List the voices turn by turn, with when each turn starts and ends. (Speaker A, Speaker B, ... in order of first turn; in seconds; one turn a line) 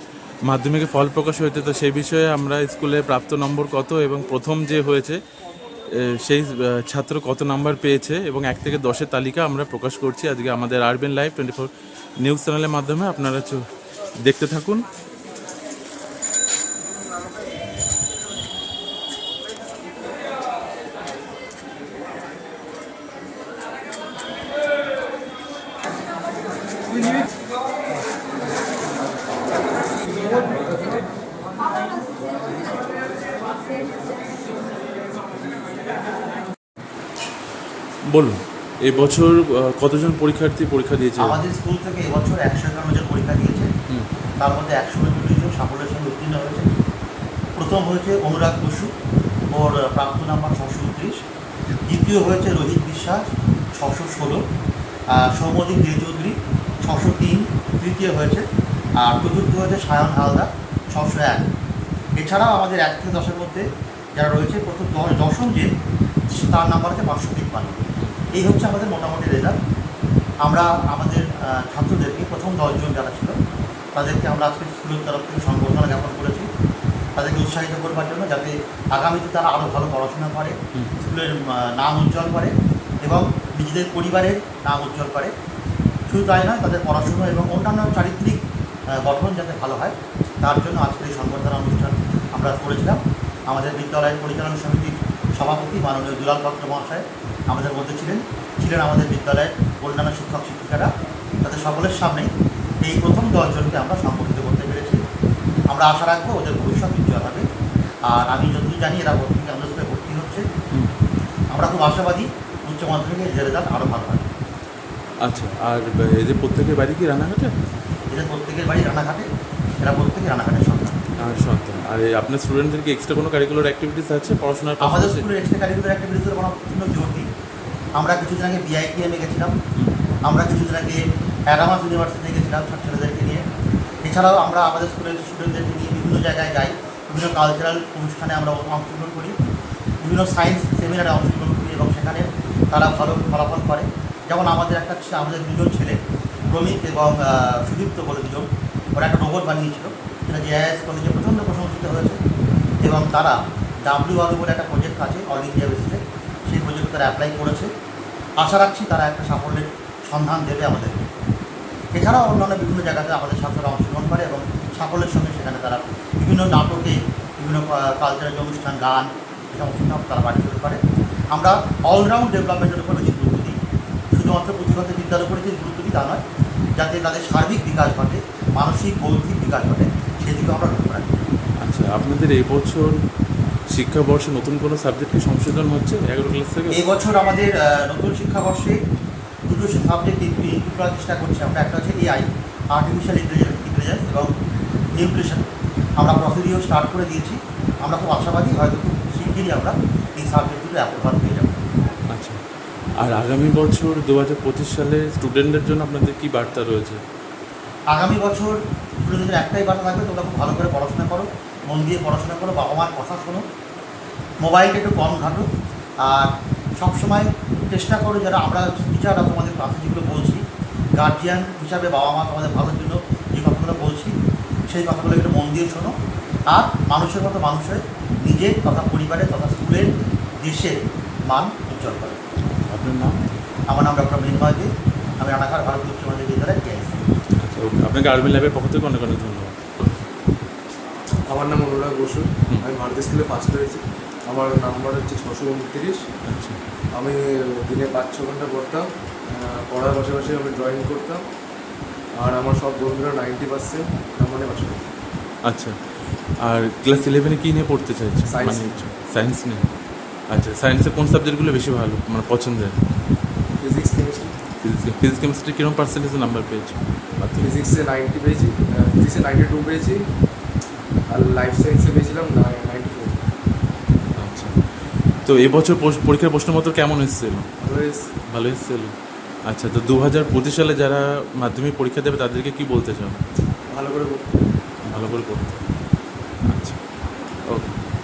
Speaker A: 0.5-5.2
Speaker A: 5.9-13.6
Speaker A: 14.2-14.8
Speaker A: 38.0-41.4
Speaker B: 41.2-43.7
Speaker B: 44.4-46.7
Speaker B: 47.6-48.9
Speaker B: 49.5-51.2
Speaker B: 51.9-53.2
Speaker B: 53.8-54.4
Speaker B: 55.1-58.4
Speaker B: 59.0-61.4
Speaker B: 62.2-63.6
Speaker B: 64.2-65.7
Speaker B: 66.3-69.6
Speaker B: 70.4-73.3
Speaker B: 73.9-76.5
Speaker B: 77.2-85.3
Speaker B: 86.1-88.4
Speaker B: 88.9-100.9
Speaker B: 101.4-102.3
Speaker B: 102.8-105.0
Speaker B: 105.7-107.4
Speaker B: 108.0-110.4
Speaker B: 111.5-114.3
Speaker A: 115.2-117.5
Speaker B: 118.1-119.2
Speaker B: 119.8-121.1
Speaker A: 121.2-125.3
Speaker B: 124.8-127.3
Speaker B: 128.0-129.5
Speaker B: 130.2-133.4
Speaker B: 134.1-139.3
Speaker B: 140.0-146.0
Speaker B: 146.5-152.2
Speaker B: 152.8-153.3
Speaker B: 153.8-157.7
Speaker B: 158.4-161.1
Speaker B: 161.9-170.8
Speaker B: 171.3-173.6
Speaker B: 174.1-176.2
Speaker B: 176.8-181.1
Speaker A: 181.6-183.0
Speaker A: 183.7-186.8
Speaker B: 186.7-188.8
Speaker B: 189.5-194.3
Speaker B: 194.9-195.4
Speaker B: 196.0-201.6
Speaker A: 202.1-202.4
Speaker A: 203.0-207.0
Speaker B: 207.9-213.4
Speaker B: 214.4-215.4
Speaker B: 216.0-220.4
Speaker B: 221.0-224.1
Speaker B: 224.7-225.9
Speaker B: 226.5-229.9
Speaker B: 230.4-232.2
Speaker A: 232.6-233.2
Speaker B: 233.7-237.0
Speaker A: 237.3-239.9
Speaker C: 241.3-246.0
Speaker A: 246.2-246.6
Speaker C: 246.9-251.2
Speaker C: 252.2-254.8
Speaker A: 255.4-255.8
Speaker A: 256.4-259.7
Speaker C: 258.3-258.8
Speaker A: 260.3-262.8
Speaker C: 263.6-264.3
Speaker A: 264.6-267.5
Speaker C: 267.4-270.0
Speaker C: 271.1-273.2
Speaker A: 274.2-274.6
Speaker A: 275.2-277.5
Speaker C: 277.6-278.1
Speaker A: 278.3-278.9
Speaker A: 279.5-283.2
Speaker C: 283.7-284.3
Speaker A: 284.8-285.6
Speaker A: 286.5-286.8
Speaker A: 287.5-287.8